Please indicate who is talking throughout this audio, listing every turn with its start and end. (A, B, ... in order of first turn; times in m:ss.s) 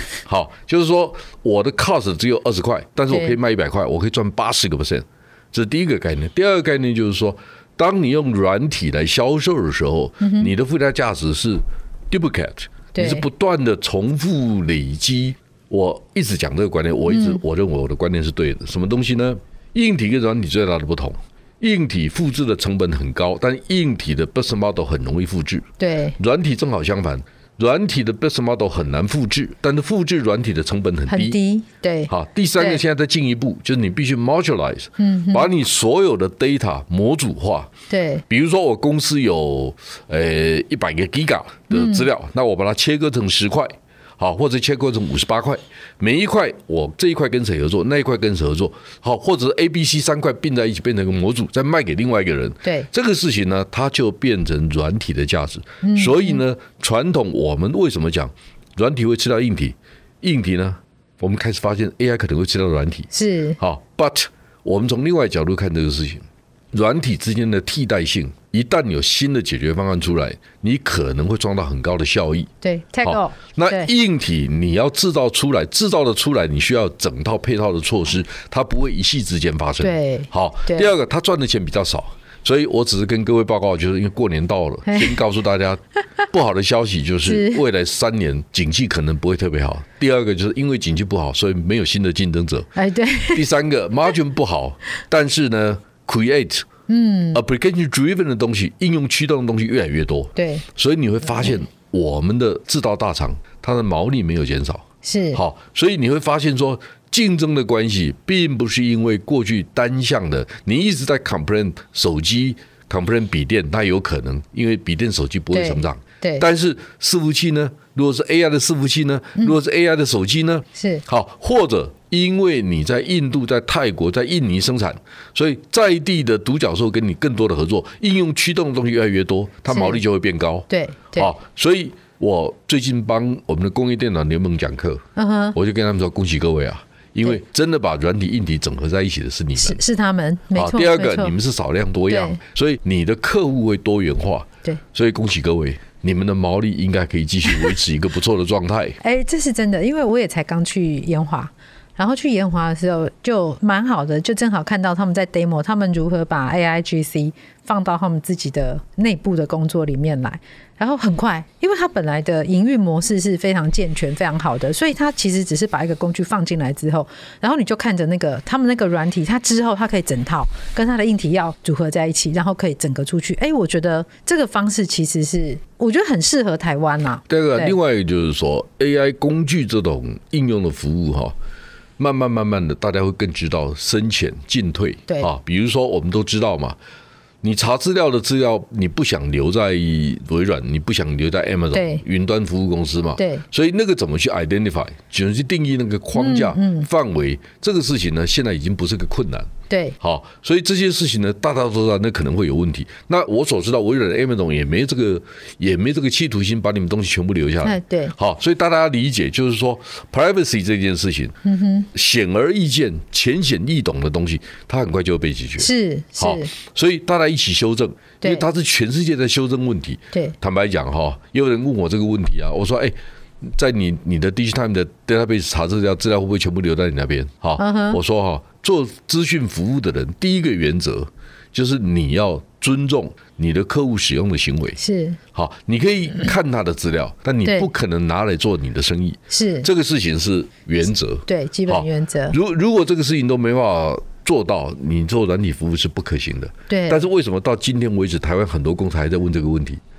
0:00.2-0:31.4 A
0:03.1-0:03.4 B
0:10.2-0:10.5 B
0:12.9-0:13.3 B
0:17.1-0:17.4 B
0:25.8-0:26.2 B
0:31.1-0:32.8 B
0:32.1-0:37.7 A
0:35.0-0:35.5 B
0:37.9-0:38.2 B
0:38.3-1:12.5 A
0:41.7-0:42.1 B
0:55.8-0:56.4 B
1:03.1-1:03.6 B
1:12.6-1:13.9 B
1:13.0-1:32.7 A
1:19.8-1:20.9 B
1:24.9-1:25.1 B
1:27.3-1:27.6 B
1:32.8-1:33.4 B
1:33.3-1:36.7 A
1:36.9-1:37.4 B
1:37.3-2:15.0 A
1:40.4-1:40.6 B
1:45.0-1:45.4 B
1:55.5-1:56.5 B
2:00.8-2:01.0 B
2:09.7-2:10.0 B
2:10.7-2:11.4 B
2:15.2-2:15.6 B
2:15.6-2:19.8 A
2:19.6-2:21.4 B
2:20.6-2:29.0 A
2:22.1-2:22.4 B
2:29.0-2:57.8 B
2:57.3-3:01.4 A
3:02.0-3:06.8 A
3:07.4-3:31.4 A
3:11.7-3:12.0 B
3:13.2-3:13.4 B
3:16.2-3:16.9 B
3:19.7-3:20.0 B
3:27.6-3:28.2 B
3:31.4-3:31.9 B
3:31.9-3:54.8 A
3:35.6-3:36.5 B
3:47.6-3:48.0 B
3:54.8-3:55.2 B
3:55.3-4:09.8 A
3:59.3-3:59.7 B
4:01.3-4:02.4 B
4:06.7-4:07.0 B